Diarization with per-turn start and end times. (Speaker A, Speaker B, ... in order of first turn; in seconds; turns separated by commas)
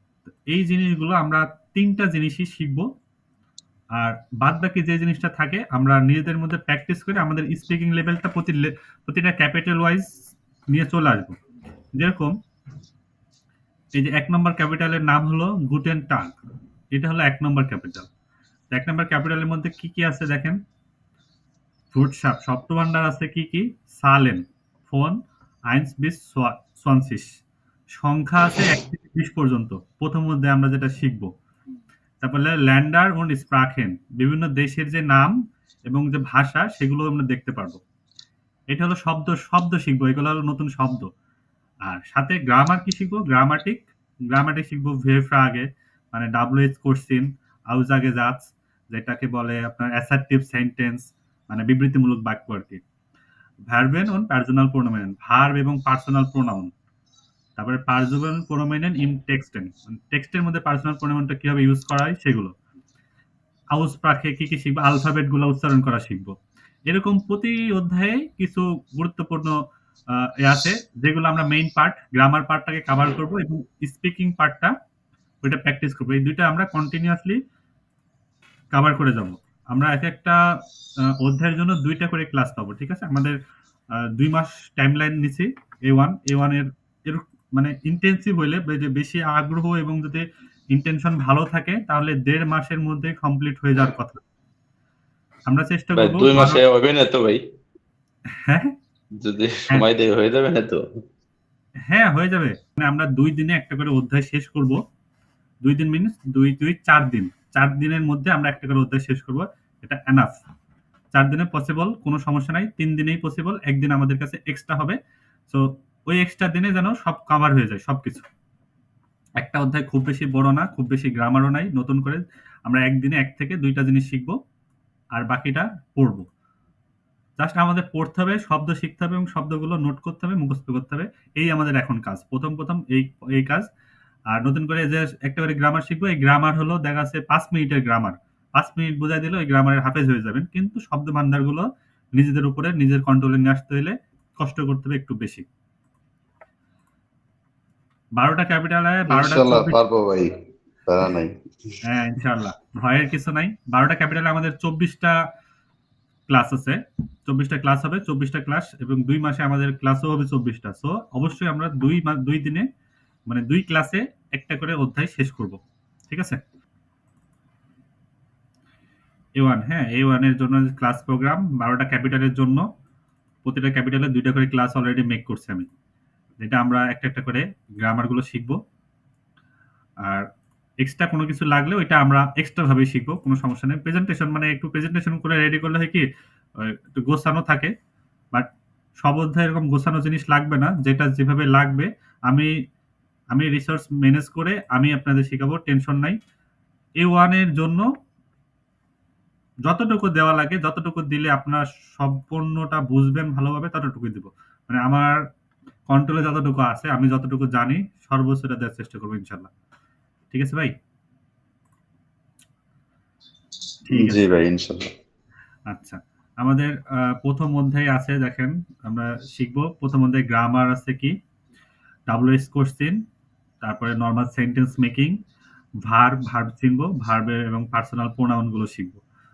Speaker A: 0.5-2.9, Speaker A: 4.0-10.1, Speaker A: 10.7-11.4, Speaker A: 12.0-12.3, Speaker A: 14.0-16.3, Speaker A: 16.9-18.1, Speaker A: 18.7-20.6, Speaker A: 21.9-25.2, Speaker A: 25.7-27.3, Speaker A: 28.0-31.3, Speaker A: 32.2-35.3, Speaker A: 35.9-37.8, Speaker A: 38.7-41.1, Speaker A: 41.9-52.8, Speaker A: 53.7-56.7, Speaker A: 57.6-62.5, Speaker A: 63.8-66.3, Speaker A: 66.9-69.5, Speaker A: 70.2-74.7, Speaker A: 75.4-77.4, Speaker A: 78.7-80.4, Speaker A: 81.2-83.4, Speaker A: 84.2-94.2, Speaker A: 95.5-96.6, Speaker B: 96.0-97.4, Speaker A: 98.4-98.7, Speaker B: 99.2-100.8, Speaker A: 101.9-104.8, Speaker A: 105.6-110.3, Speaker A: 111.1-115.0, Speaker A: 115.5-118.3, Speaker A: 119.4-124.3, Speaker A: 125.2-126.3, Speaker A: 127.4-133.7, Speaker A: 134.3-141.7, Speaker A: 142.2-145.5, Speaker A: 148.2-149.8, Speaker C: 149.1-150.3, Speaker C: 150.9-151.3, Speaker A: 151.8-155.2, Speaker A: 156.3-162.7, Speaker A: 163.3-165.6, Speaker A: 166.1-166.4, Speaker A: 169.4-172.7, Speaker A: 173.4-175.7, Speaker A: 176.4-178.6, Speaker A: 180.8-186.1, Speaker A: 186.6-187.7, Speaker A: 189.0-192.5, Speaker A: 193.3-196.2, Speaker A: 197.0-197.8, Speaker A: 199.7-205.1, Speaker A: 205.9-209.5, Speaker A: 210.3-210.7, Speaker A: 213.9-214.3, Speaker C: 213.9-214.9, Speaker A: 215.7-221.1, Speaker A: 222.1-223.0, Speaker A: 223.6-225.2, Speaker A: 225.8-229.0